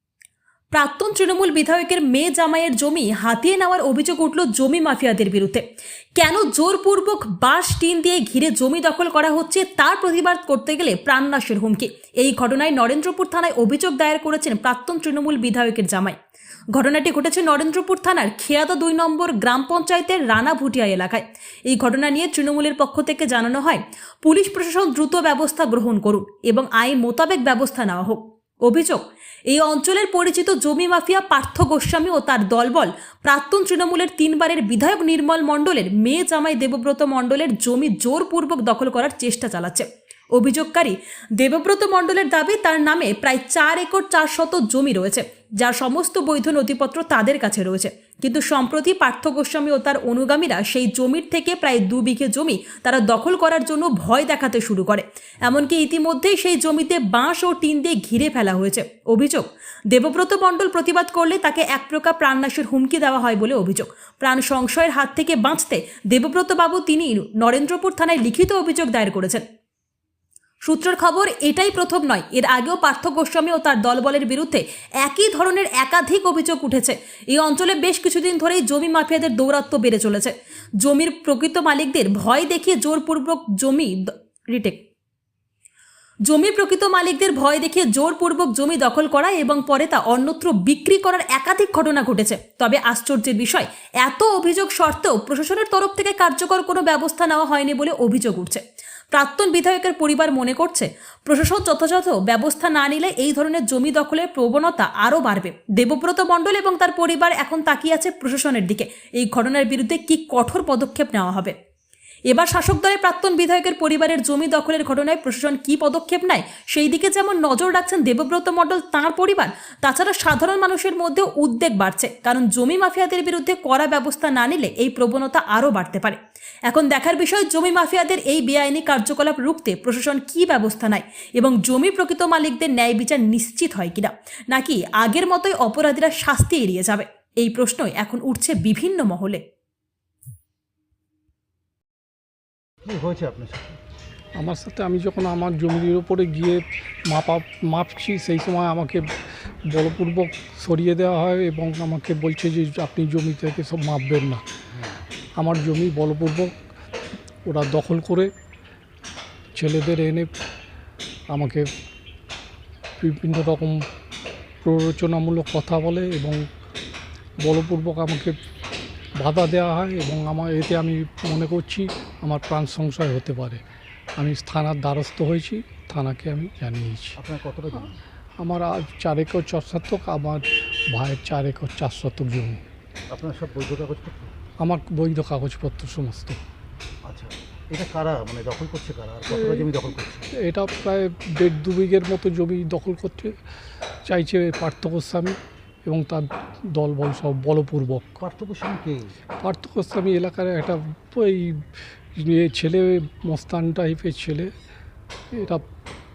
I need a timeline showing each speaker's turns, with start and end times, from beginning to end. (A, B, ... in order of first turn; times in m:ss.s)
0:00.7-0:05.6 A
0:06.2-0:16.2 A
0:16.8-1:09.4 A
1:10.6-1:23.9 A
1:24.5-1:24.8 A
1:26.3-1:38.6 A
1:39.1-1:51.5 A
1:52.3-2:19.4 A
2:22.8-2:23.8 B
2:24.4-2:29.0 C
2:29.7-2:34.4 C
2:34.7-2:35.0 B
2:35.4-2:36.5 C
2:37.4-2:38.3 C
2:39.6-2:40.3 C
2:41.3-2:41.7 C
2:43.0-2:43.8 C
2:44.6-2:46.4 C
2:47.4-2:48.4 C
2:49.2-2:53.6 C
2:54.2-2:57.2 C
2:57.2-2:58.0 B
2:58.4-3:02.6 C
3:03.1-3:04.3 B
3:04.6-3:06.4 C
3:07.0-3:10.3 B
3:09.3-3:09.6 C
3:10.4-3:13.3 C
3:14.0-3:18.2 C
3:18.2-3:19.1 B
3:19.4-3:21.6 C
3:22.2-3:24.5 C
3:25.3-3:25.6 C